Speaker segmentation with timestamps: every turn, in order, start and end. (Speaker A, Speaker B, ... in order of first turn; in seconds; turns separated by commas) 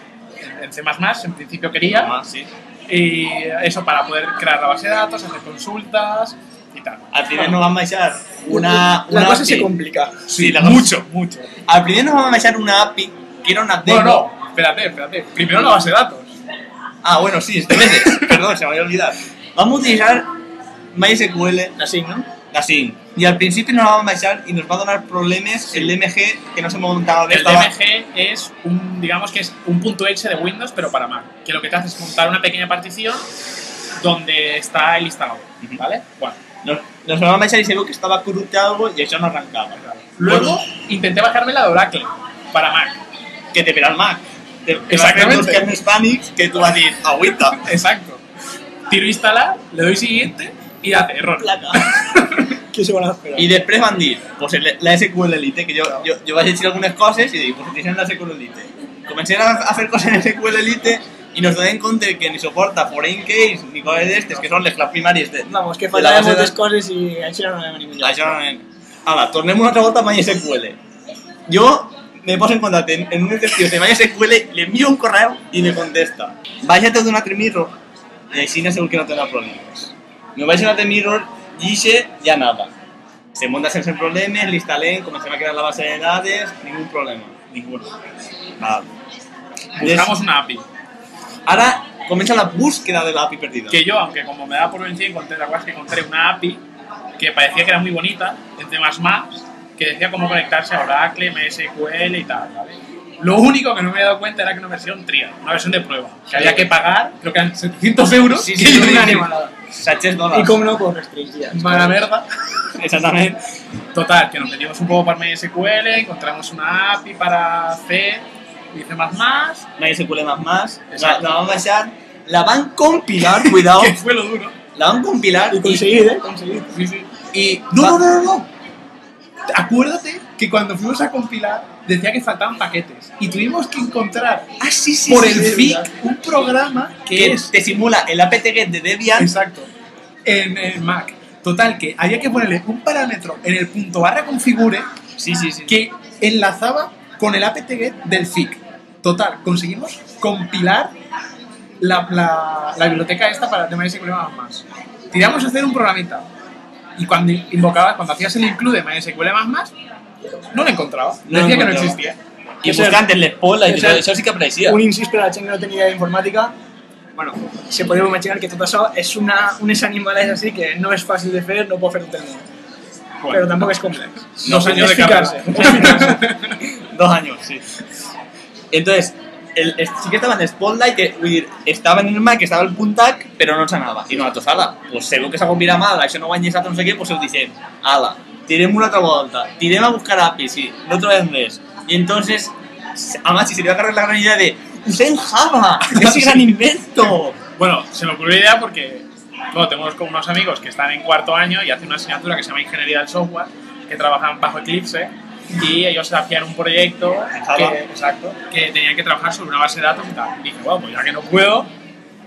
Speaker A: 0.4-2.1, Speaker B: 1.9-2.5, Speaker A: 2.9-7.1, Speaker B: 7.1-9.7, Speaker C: 8.5-10.2, Speaker A: 10.3-11.5, Speaker B: 10.3-11.0, Speaker B: 11.7-14.3, Speaker A: 13.8-16.3, Speaker B: 17.0-20.3, Speaker B: 20.9-21.7, Speaker C: 21.8-22.3, Speaker B: 22.5-27.7, Speaker A: 27.3-33.3, Speaker A: 34.0-36.4, Speaker B: 36.6-40.6, Speaker A: 39.8-43.0, Speaker B: 43.5-47.6, Speaker A: 44.9-45.7, Speaker A: 47.5-48.2, Speaker A: 48.9-52.5, Speaker C: 51.5-51.9, Speaker C: 52.7-53.5, Speaker B: 53.4-66.6, Speaker C: 65.5-68.4, Speaker B: 68.0-70.8, Speaker B: 71.5-77.8, Speaker B: 78.3-82.7, Speaker B: 83.3-87.4, Speaker A: 87.5-87.9, Speaker B: 88.6-88.9, Speaker A: 89.8-90.6, Speaker B: 89.8-90.1, Speaker B: 91.5-93.8, Speaker A: 93.7-96.6, Speaker A: 97.2-109.3, Speaker B: 106.3-106.7, Speaker B: 108.3-110.6, Speaker C: 108.6-109.5, Speaker C: 110.3-112.0, Speaker A: 111.5-112.2, Speaker B: 112.8-113.4, Speaker A: 113.9-119.7, Speaker B: 119.8-124.0, Speaker A: 120.9-121.3, Speaker A: 123.4-124.5, Speaker B: 124.7-125.8, Speaker C: 125.5-126.7, Speaker A: 126.7-128.5, Speaker B: 127.3-128.1, Speaker A: 129.5-137.5, Speaker C: 135.0-135.9, Speaker B: 137.1-139.3, Speaker A: 139.2-139.7, Speaker A: 140.2-144.9, Speaker B: 145.2-145.7, Speaker A: 145.7-150.9, Speaker A: 151.8-156.3, Speaker A: 157.0-159.7, Speaker A: 160.5-162.2, Speaker B: 161.2-162.0, Speaker B: 162.6-164.8, Speaker C: 162.6-163.0, Speaker C: 163.6-164.1, Speaker C: 164.6-166.5, Speaker C: 167.2-172.5, Speaker A: 173.2-173.7, Speaker C: 173.3-176.3, Speaker A: 174.4-176.6, Speaker B: 174.4-176.0, Speaker B: 176.6-177.7, Speaker B: 178.7-197.4, Speaker A: 195.9-196.4, Speaker A: 197.6-211.7, Speaker B: 207.3-207.8